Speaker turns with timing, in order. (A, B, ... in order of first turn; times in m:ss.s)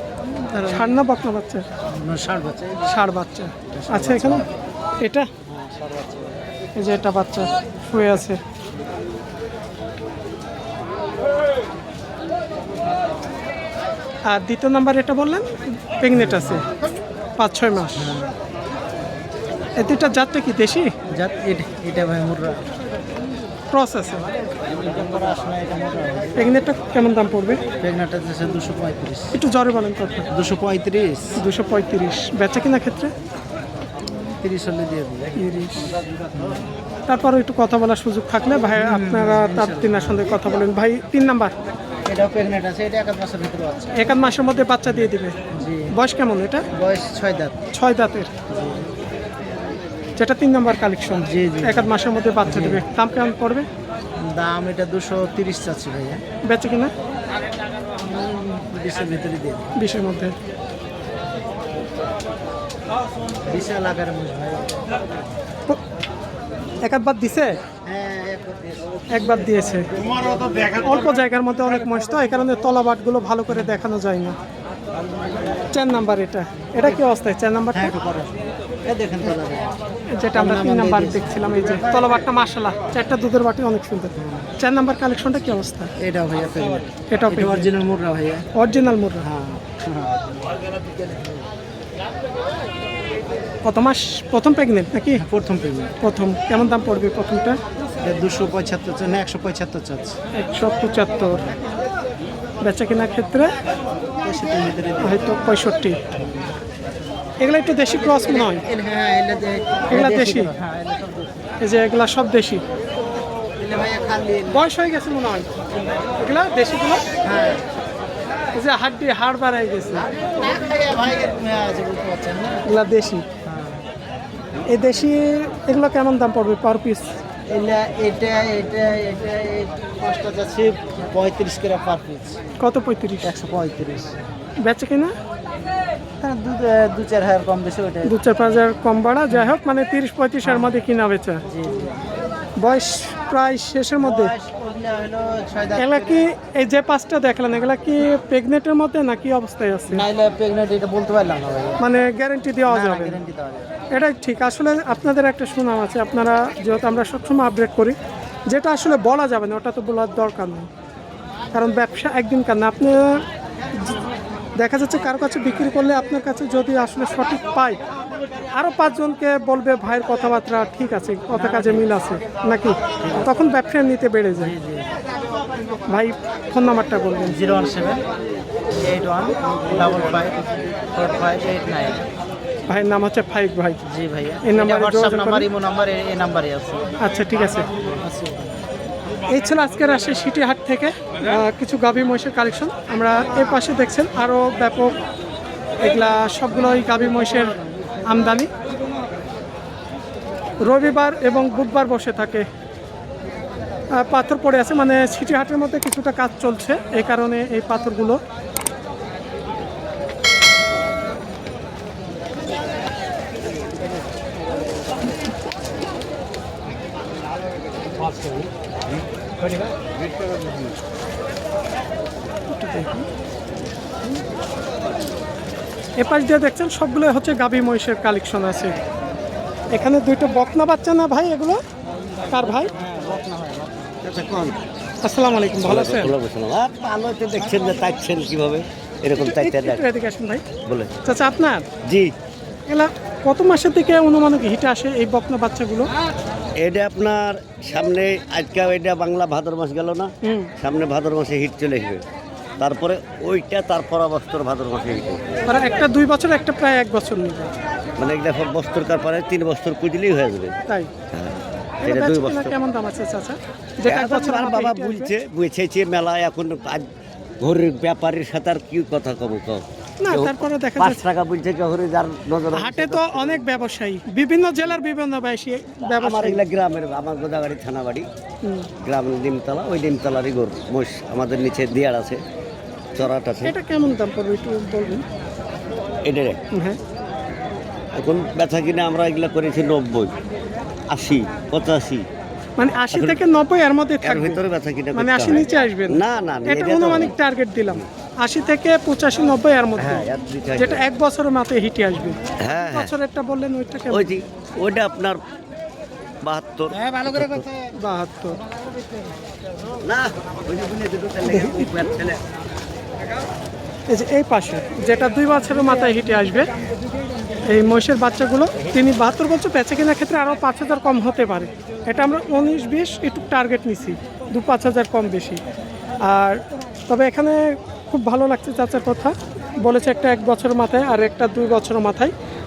0:00.3-0:01.0 A
0:00.7-0:01.6 B
0:01.9-0:03.0 A
0:02.8-0:04.4 B
0:03.7-0:04.5 A
0:05.0-0:05.3 B
0:05.4-0:06.4 A
0:06.8-0:08.4 B
0:14.3-0:16.7 B
0:16.1-0:16.7 A
0:17.4-0:18.1 B
0:18.0-0:18.3 A
0:19.8-0:20.9 B
0:21.1-0:22.6 A
0:23.7-0:24.3 B
0:24.7-0:26.4 A
0:26.4-0:27.6 B
0:27.8-0:29.4 A
0:29.3-0:30.3 B
0:30.3-0:31.4 A
0:31.4-0:33.1 B
0:34.1-0:35.5 A
0:35.4-0:36.0 B
0:36.3-0:36.8 A
0:37.0-0:41.5 B
0:38.8-0:40.3 A
0:42.1-0:44.1 A
0:43.9-0:45.4 B
0:44.9-0:45.9 A
0:45.9-0:46.6 B
0:46.7-0:47.6 A
0:47.7-0:48.3 B
0:48.5-0:48.9 A
0:50.2-0:53.7 B
0:51.2-0:51.9 A
0:52.4-0:52.8 A
0:54.2-0:56.2 A
0:56.4-0:56.9 B
0:58.0-0:59.8 A
0:59.8-1:00.3 B
1:03.4-1:04.8 A
1:06.8-1:07.6 B
1:07.8-1:09.2 A
1:09.1-1:09.9 B
1:09.9-1:10.8 A
1:10.8-1:14.4 B
1:13.5-1:13.8 A
1:15.7-1:17.9 B
1:17.7-1:19.7 A
1:20.1-1:25.9 B
1:20.3-1:21.8 A
1:24.2-1:24.5 A
1:26.0-1:28.5 A
1:27.1-1:27.7 B
1:28.5-1:29.3 B
1:29.2-1:31.4 A
1:33.6-1:35.2 B
1:35.2-1:35.9 A
1:36.0-1:37.6 B
1:38.0-1:40.2 A
1:40.3-1:41.5 B
1:42.6-1:43.5 B
1:44.2-1:45.3 A
1:45.0-1:46.0 B
1:46.1-1:46.5 A
1:47.4-1:48.6 B
1:47.9-1:51.4 A
1:49.9-1:50.5 B
1:51.6-1:52.6 B
1:53.6-1:54.6 A
1:54.5-1:55.5 B
1:56.2-1:57.0 B
1:57.2-1:57.6 A
1:58.5-2:00.1 B
2:00.1-2:02.6 A
2:02.6-2:03.2 B
2:03.4-2:03.8 A
2:04.7-2:07.2 B
2:07.5-2:12.4 A
2:12.6-2:13.3 B
2:13.2-2:14.1 A
2:14.6-2:15.1 B
2:16.2-2:18.1 A
2:18.0-2:21.4 B
2:20.4-2:20.8 A
2:21.5-2:22.0 A
2:22.6-2:24.3 B
2:24.0-2:26.2 A
2:25.8-2:30.0 B
2:29.9-2:31.8 A
2:31.8-2:33.2 B
2:32.7-2:33.7 A
2:33.9-2:38.0 B
2:38.5-2:40.7 B
2:41.5-2:43.2 B
2:43.7-2:44.0 B
2:44.6-2:47.8 B
2:48.5-2:54.5 B
2:51.3-2:52.0 A
2:53.0-2:53.3 A
2:54.4-2:55.0 A
2:55.9-2:57.4 B
2:57.2-2:58.0 A
2:58.7-3:02.1 A
3:02.7-3:03.8 B
3:03.8-3:06.9 A
3:04.4-3:05.5 B
3:07.0-3:07.7 B
3:07.7-3:08.6 A
3:09.3-3:15.0 B
3:15.8-3:18.5 B
3:20.6-3:22.4 B
3:24.0-3:28.2 B
3:42.5-3:43.0 B
3:46.0-3:48.7 B
3:49.7-3:51.6 B
3:52.3-3:52.7 B
3:52.6-3:53.9 A
3:54.0-3:54.6 C
3:55.0-3:56.1 B
3:55.6-3:59.8 C
3:59.2-4:00.4 B
4:00.6-4:00.9 C
4:01.0-4:01.6 B
4:01.9-4:02.1 C
4:02.7-4:05.9 B
4:06.6-4:12.0 C
4:10.2-4:10.5 B
4:12.6-4:15.4 C
4:15.5-4:17.5 B
4:18.0-4:20.6 C
4:21.1-4:22.5 C
4:21.8-4:25.1 B
4:23.8-4:26.8 C
4:27.4-4:33.6 C
4:30.0-4:31.1 B
4:32.5-4:36.4 B
4:35.9-4:38.0 C
4:38.4-4:38.7 B
4:38.8-4:42.2 C
4:42.9-4:43.6 C
4:43.4-4:45.0 B
4:46.0-4:46.4 C
4:46.5-4:46.8 B
4:47.9-4:50.1 C
4:50.9-4:52.0 C
4:52.6-4:54.4 B
4:52.9-4:53.2 C
4:54.0-4:57.1 C
4:54.9-5:00.0 B
4:59.8-5:00.8 C
5:00.6-5:04.1 B
5:02.4-5:02.9 C
5:03.9-5:05.2 C
5:06.2-5:07.5 C
5:07.7-5:08.4 B
5:09.8-5:12.2 C
5:11.2-5:11.9 B
5:13.9-5:16.5 B
5:17.5-5:25.4 B
5:26.0-5:32.1 B